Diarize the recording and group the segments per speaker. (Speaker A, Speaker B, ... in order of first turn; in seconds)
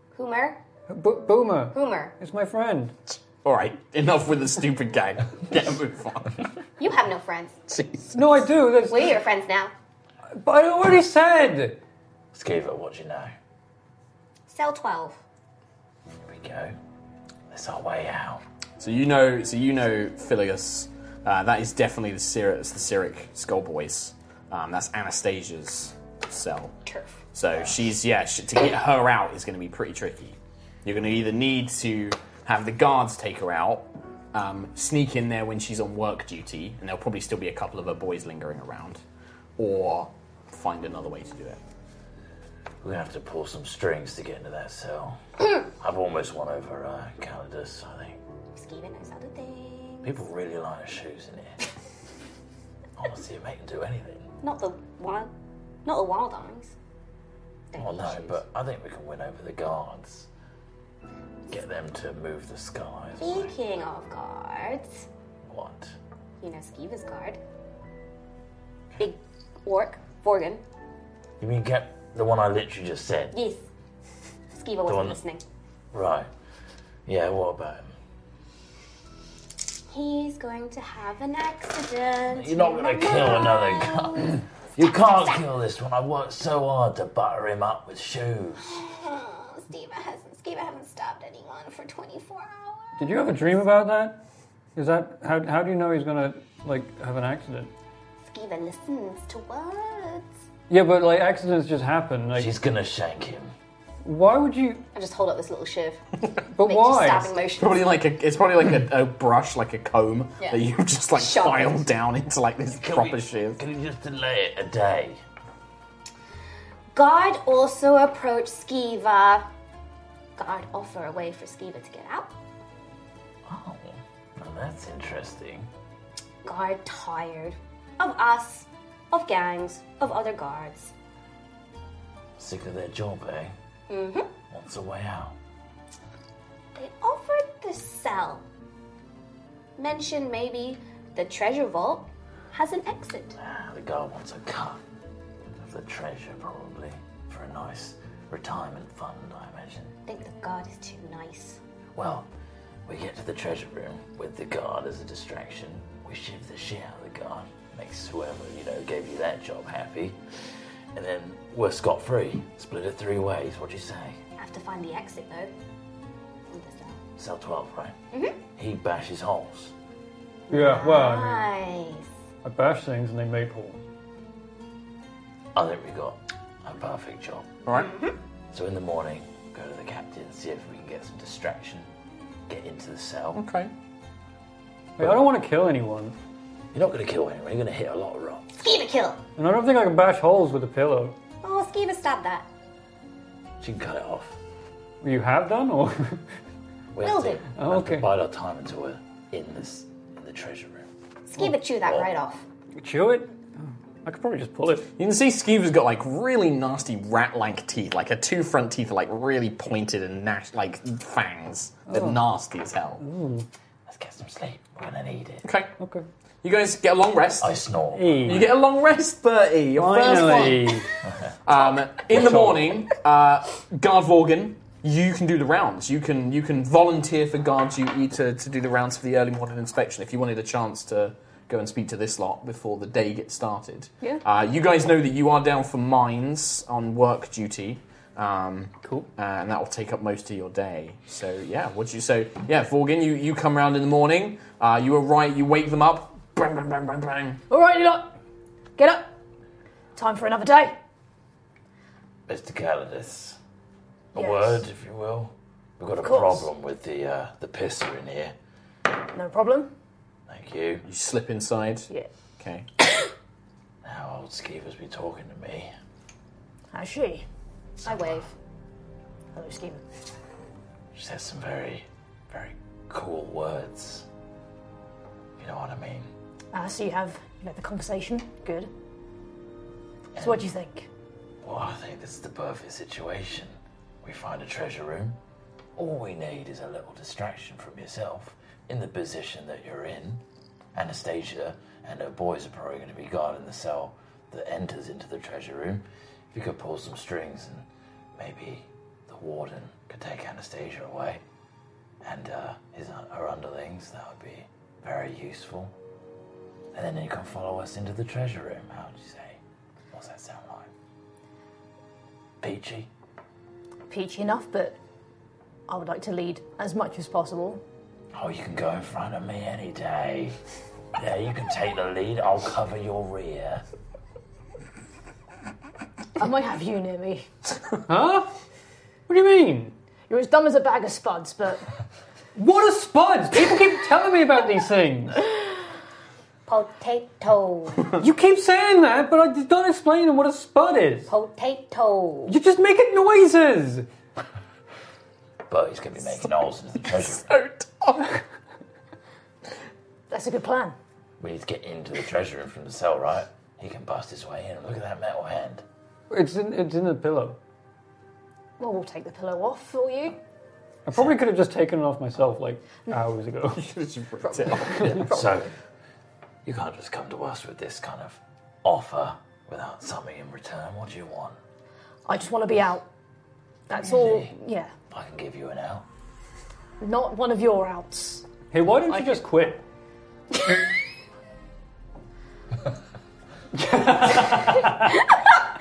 Speaker A: 0.1-0.6, 1.7-2.1, 6.8-7.6, 8.8-9.7, 14.5-15.2, 26.9-27.2, 48.5-50.2, 54.4-55.3, 55.9-56.7, 57.7-58.4, 63.2-65.1, 66.4-67.4, 69.0-70.6, 73.3-73.6, 74.5-75.4, 79.9-85.5, 88.7-93.0, 98.2-100.3, 104.9-106.0, 106.6-107.9, 110.4-111.9, 116.9-119.5, 120.4-122.3, 126.4-130.9, 133.9-134.3, 136.8-138.4, 139.8-143.4, 150.1-151.6, 164.4-165.5, 166.5-167.0, 168.1-168.4, 170.5-172.1, 177.7-178.2, 188.6-189.2, 191.4-192.5, 197.0-197.4, 201.3-202.4, 267.8-268.3, 336.5-338.0, 341.1-342.4
Speaker B: 0.9-2.9, 8.1-9.1, 10.3-11.8, 93.0-94.2, 94.8-97.7, 100.7-102.5, 104.0-104.8, 106.5-107.3, 170.5-171.4, 172.4-173.8, 185.0-186.2, 189.4-191.2, 195.0-196.2, 197.6-198.1, 202.8-204.9, 211.9-212.2, 213.0-213.5, 215.8-216.1, 217.9-218.4, 219.8-220.9, 327.9-328.3, 329.1-329.7, 332.4-335.2, 338.0-341.1, 342.3-343.9, 356.1-357.4, 360.9-363.7, 378.5-379.6, 383.6-384.9
Speaker C: 3.1-6.5, 7.7-8.2, 18.8-26.7, 27.3-39.0, 39.6-41.6, 107.6-113.6, 183.3-183.7, 205.0-213.0, 215.4-215.7, 216.4-217.6, 218.2-220.9, 221.5-247.4, 260.9-262.7, 347.2-348.1, 363.6-365.3
Speaker D: 12.3-13.3, 16.2-16.8, 17.5-18.4, 27.5-27.8, 42.8-48.2, 50.0-51.6, 53.0-54.3, 57.8-60.3, 61.5-63.5, 65.4-65.9, 71.4-73.4, 74.8-75.2, 75.9-76.3, 77.1-78.0, 82.3-88.8, 102.3-103.5, 112.7-115.2, 123.5-125.7, 132.4-133.5, 134.5-135.3, 143.4-144.8, 145.5-149.9, 151.9-152.3, 152.9-160.2, 160.9-164.2, 167.2-168.0, 168.6-169.7, 175.5-177.5, 178.5-181.9, 182.5-183.4, 186.7-188.5, 193.6-194.4, 196.9-200.9, 201.8-202.1, 213.9-215.5, 217.4-218.5, 221.0-221.3, 222.1-222.7, 252.3-253.4, 254.1-258.4, 260.3-260.9, 263.8-265.7, 270.9-274.1, 275.4-276.1, 280.2-280.4, 281.4-285.2, 285.8-290.2, 290.7-301.2, 302.0-305.7, 306.7-309.4, 309.9-310.7, 312.4-312.9, 318.1-320.4, 320.9-323.6, 345.5-347.3, 351.2-355.6, 364.8-365.5, 366.4-371.4, 373.9-374.3, 374.9-375.9
Speaker E: 247.5-248.1, 248.8-249.1, 249.9-250.8, 254.2-254.6, 256.0-256.5, 259.1-259.7, 266.7-267.2, 269.3-269.8, 276.5-278.7, 280.2-280.9, 313.9-314.8, 315.7-317.6, 326.2-327.3, 330.1-331.7, 350.1-350.8, 358.6-360.2, 372.1-372.9, 373.7-374.7, 376.8-378.2, 378.9-379.2